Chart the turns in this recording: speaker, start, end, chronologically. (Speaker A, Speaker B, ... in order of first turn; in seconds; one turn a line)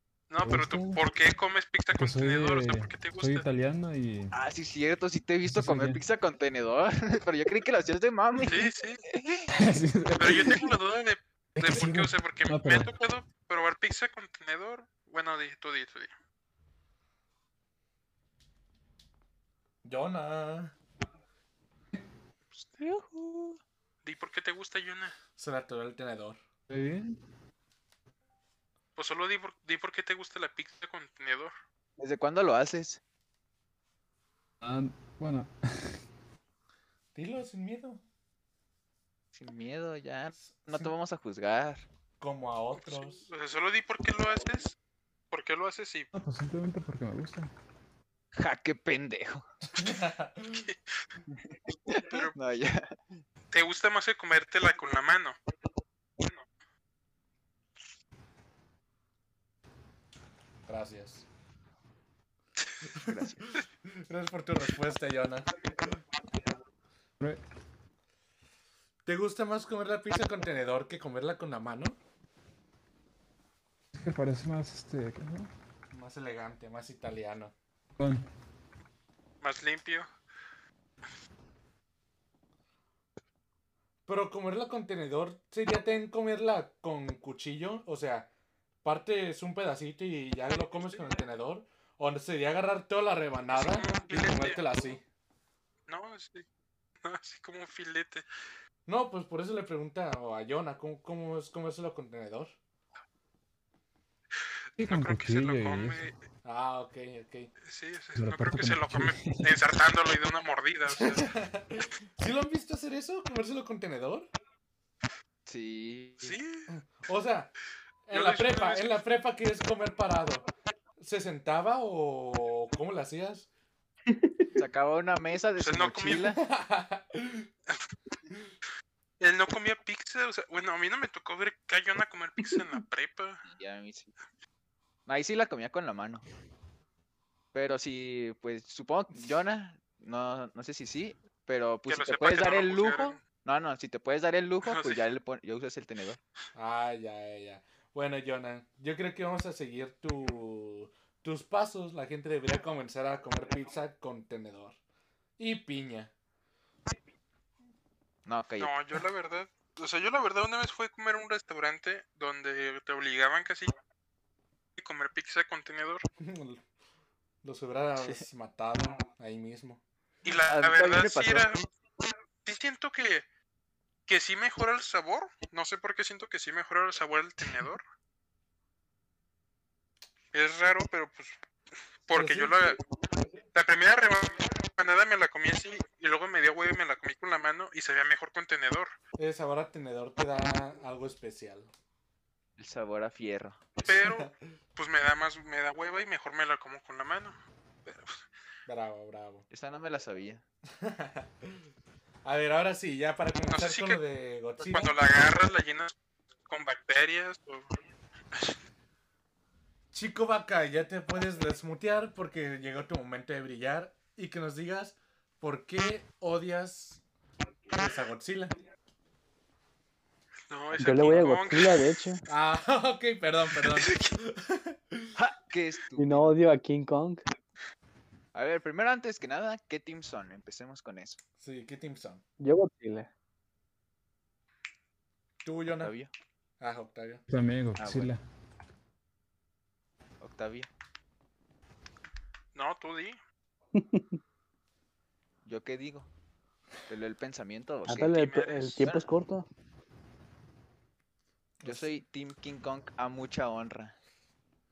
Speaker A: 0.3-3.5
Speaker B: 0.4-1.0
Speaker B: 1.9-4.3
Speaker C: 4.3-9.5
Speaker B: 5.4-6.0
Speaker A: 8.4-9.0
Speaker B: 9.5-10.7
Speaker A: 10.2-16.1
Speaker B: 11.6-12.9
Speaker D: 19.8-20.7
Speaker C: 22.8-23.6
Speaker A: 24.0-25.1
Speaker D: 25.4-26.4
Speaker B: 26.7-27.1
Speaker A: 28.9-31.5
Speaker C: 32.0-33.0
Speaker B: 34.6-36.0
Speaker D: 37.1-38.0
Speaker C: 39.3-41.8
Speaker D: 40.4-40.9
Speaker D: 42.2-43.3
Speaker A: 42.7-44.8
Speaker A: 45.3-46.1
Speaker B: 46.1-47.5
Speaker C: 48.3-49.5
Speaker D: 49.7-50.7
Speaker C: 51.3-53.0
Speaker A: 52.0-52.3
Speaker A: 53.5-55.4
Speaker D: 60.6-61.2
Speaker C: 63.0-63.5
Speaker D: 64.0-65.5
Speaker D: 69.0-72.0
Speaker B: 73.9-75.5
Speaker D: 75.9-77.5
Speaker B: 78.0-78.2
Speaker A: 79.4-80.1
Speaker D: 84.0-88.3
Speaker D: 88.8-95.0
Speaker A: 93.5-94.6
Speaker A: 95.9-96.5
Speaker A: 97.0-98.2
Speaker D: 98.8-102.5
Speaker B: 104.8-106.1
Speaker A: 104.8-106.1
Speaker D: 106.4-107.5
Speaker A: 107.6-111.3
Speaker B: 108.2-109.5
Speaker D: 111.0-114.3
Speaker C: 115.5-116.4
Speaker A: 116.2-116.7
Speaker D: 116.7-117.5
Speaker D: 118.1-123.5
Speaker A: 118.1-119.0
Speaker E: 124.1-124.5
Speaker C: 124.5-126.4
Speaker A: 125.6-126.3
Speaker D: 126.3-127.5
Speaker A: 129.2-133.4
Speaker C: 133.4-134.1
Speaker C: 135.1-136.2
Speaker C: 137.5-146.2
Speaker A: 141.9-143.2
Speaker A: 144.6-145.0
Speaker D: 146.5-154.8
Speaker D: 155.4-156.1
Speaker C: 158.2-158.7
Speaker A: 158.6-163.7
Speaker A: 164.8-166.0
Speaker D: 166.2-166.6
Speaker D: 167.4-169.8
Speaker C: 168.0-168.2
Speaker A: 170.2-171.6
Speaker C: 170.4-171.6
Speaker A: 172.4-173.2
Speaker A: 174.1-177.8
Speaker A: 180.3-181.4
Speaker A: 182.1-182.8
Speaker D: 182.1-182.7
Speaker A: 183.5-188.9
Speaker D: 189.2-191.7
Speaker C: 192.6-193.7
Speaker A: 193.8-198.2
Speaker D: 193.9-194.3
Speaker D: 198.7-199.4
Speaker C: 199.5-200.4
Speaker D: 200.8-201.6
Speaker D: 202.2-204.9
Speaker A: 203.4-204.0
Speaker A: 204.6-205.9
Speaker A: 206.5-207.7
Speaker D: 209.9-217.0
Speaker D: 217.7-218.5
Speaker A: 220.5-221.9
Speaker E: 220.8-222.2
Speaker D: 222.3-225.1
Speaker A: 223.5-224.1
Speaker C: 225.2-226.3
Speaker E: 226.0-227.2
Speaker C: 228.3-231.2
Speaker D: 231.4-232.2
Speaker E: 232.4-233.1
Speaker D: 235.4-235.9
Speaker C: 235.8-236.1
Speaker D: 236.6-237.2
Speaker B: 237.3-238.2
Speaker C: 237.8-238.1
Speaker C: 240.2-240.7
Speaker A: 242.5-243.2
Speaker E: 243.7-244.2
Speaker C: 245.4-246.1
Speaker C: 246.9-248.2
Speaker E: 247.9-249.5
Speaker A: 248.1-248.8
Speaker C: 248.8-249.1
Speaker D: 251.6-252.0
Speaker C: 251.6-253.9